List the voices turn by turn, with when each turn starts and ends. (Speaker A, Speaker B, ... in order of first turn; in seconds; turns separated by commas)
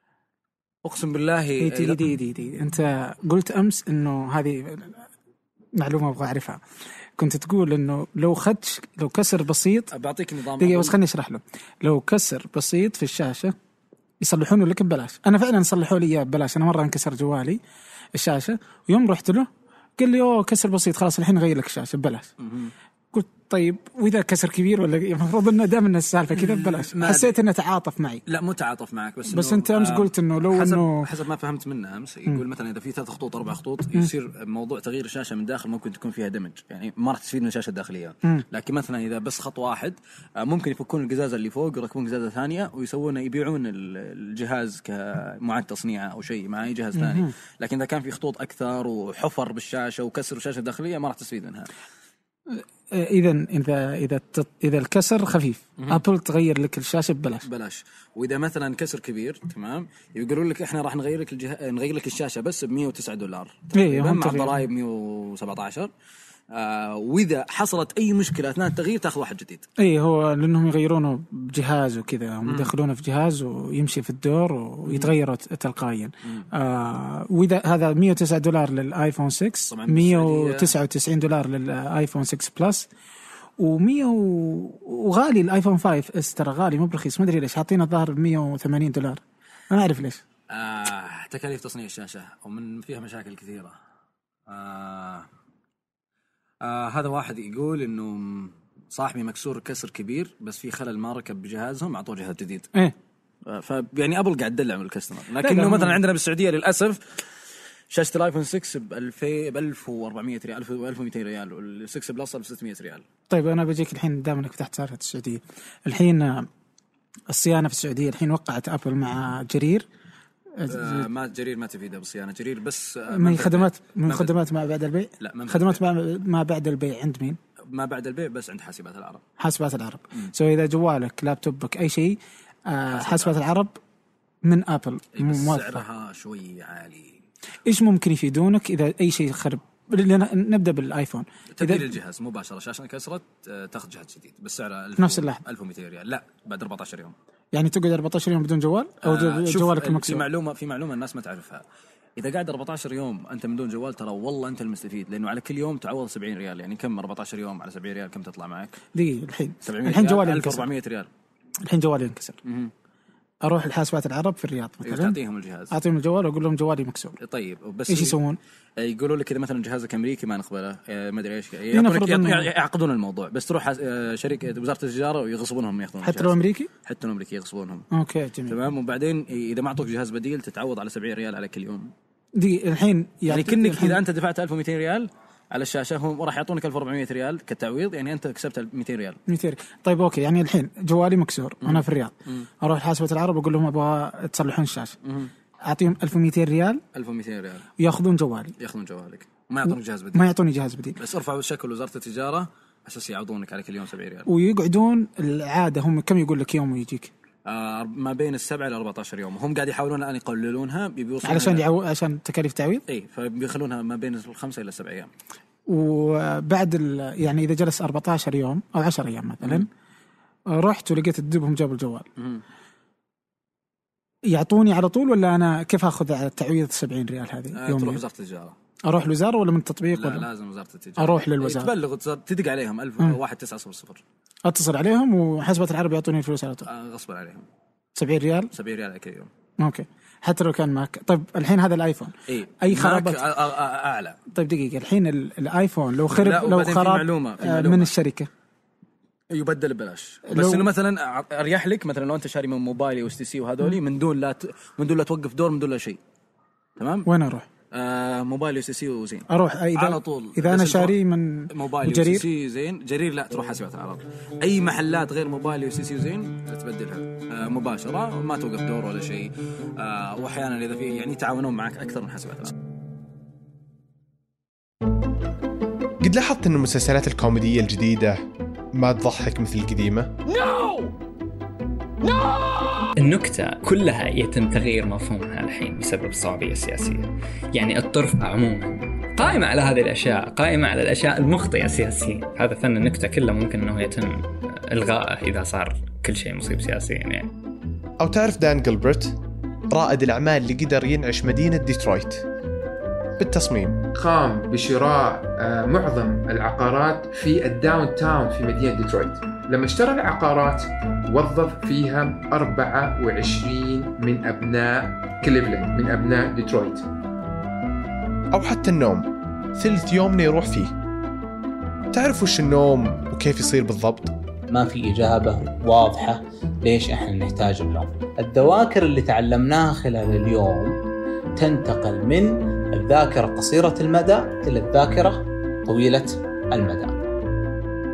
Speaker A: 0.8-2.0, Speaker B: 1.6-5.0, Speaker B: 5.7-6.6, Speaker B: 7.2-9.9, Speaker A: 9.9-11.0, Speaker B: 10.6-13.5, Speaker B: 14.2-17.6, Speaker B: 18.1-22.3, Speaker A: 22.4-22.7, Speaker B: 23.1-28.2, Speaker A: 26.4-27.4, Speaker A: 28.2-51.7, Speaker B: 29.3-31.1, Speaker B: 46.9-47.3, Speaker B: 52.5-57.4, Speaker A: 57.4-65.9, Speaker B: 63.7-64.6, Speaker A: 66.5-69.7, Speaker B: 69.8-82.9, Speaker A: 74.8-75.1, Speaker A: 79.7-80.8, Speaker B: 83.6-90.2, Speaker A: 90.5-93.8, Speaker A: 94.5-95.3, Speaker A: 96.6-102.7, Speaker A: 103.5-107.0, Speaker B: 105.4-106.0, Speaker A: 107.9-113.0, Speaker B: 113.3-116.5, Speaker B: 117.3-119.9, Speaker B: 120.6-121.1, Speaker A: 120.7-124.3, Speaker B: 123.1-127.4, Speaker A: 125.2-125.8, Speaker A: 127.7-129.2, Speaker B: 129.4-133.8, Speaker A: 132.9-133.4, Speaker B: 134.4-135.8, Speaker A: 135.1-137.2, Speaker B: 137.7-141.9, Speaker A: 141.5-147.1, Speaker B: 145.0-145.4, Speaker B: 147.5-150.2, Speaker A: 149.0-151.6, Speaker A: 152.2-158.8, Speaker B: 158.9-160.7, Speaker A: 159.6-161.1, Speaker B: 161.6-162.4, Speaker A: 162.4-162.7, Speaker B: 163.4-165.2, Speaker A: 164.8-165.7, Speaker B: 165.7-167.2, Speaker A: 167.2-168.2, Speaker B: 167.9-168.4, Speaker A: 168.8-177.9, Speaker B: 171.7-172.5, Speaker B: 176.0-176.7, Speaker B: 177.9-178.6, Speaker A: 178.5-181.9, Speaker B: 182.3-184.0, Speaker A: 183.3-189.2, Speaker B: 189.3-194.9, Speaker A: 191.6-192.5, Speaker A: 195.0-195.3, Speaker B: 195.6-196.8, Speaker A: 196.9-197.7, Speaker B: 197.8-198.5, Speaker A: 198.6-200.3, Speaker B: 199.7-201.0, Speaker A: 201.0-204.3, Speaker B: 204.2-207.1, Speaker A: 207.4-211.6, Speaker B: 211.2-212.8, Speaker A: 212.9-215.1, Speaker B: 215.7-219.7, Speaker A: 219.4-219.7, Speaker B: 220.5-222.1, Speaker A: 222.2-222.4, Speaker B: 224.3-228.0, Speaker A: 227.5-228.6, Speaker B: 228.8-230.3, Speaker A: 229.9-234.0, Speaker B: 231.0-231.7, Speaker B: 234.4-236.7, Speaker A: 236.6-237.5, Speaker B: 237.9-238.5, Speaker A: 238.5-239.3, Speaker B: 239.6-243.2, Speaker A: 242.3-244.2, Speaker B: 244.3-248.3, Speaker A: 246.1-247.9, Speaker A: 249.3-256.0, Speaker B: 250.3-250.7, Speaker A: 256.8-257.1, Speaker B: 257.1-257.5, Speaker A: 257.7-261.0, Speaker B: 259.3-262.2, Speaker A: 261.5-272.5, Speaker C: 276.0-280.1, Speaker D: 280.3-280.9, Speaker D: 282.0-297.3, Speaker C: 298.0-299.2, Speaker C: 299.7-302.2, Speaker C: 303.2-303.8, Speaker E: 303.9-316.9, Speaker C: 318.3-320.7, Speaker C: 321.9-324.1, Speaker F: 324.5-330.7, Speaker F: 331.4-337.0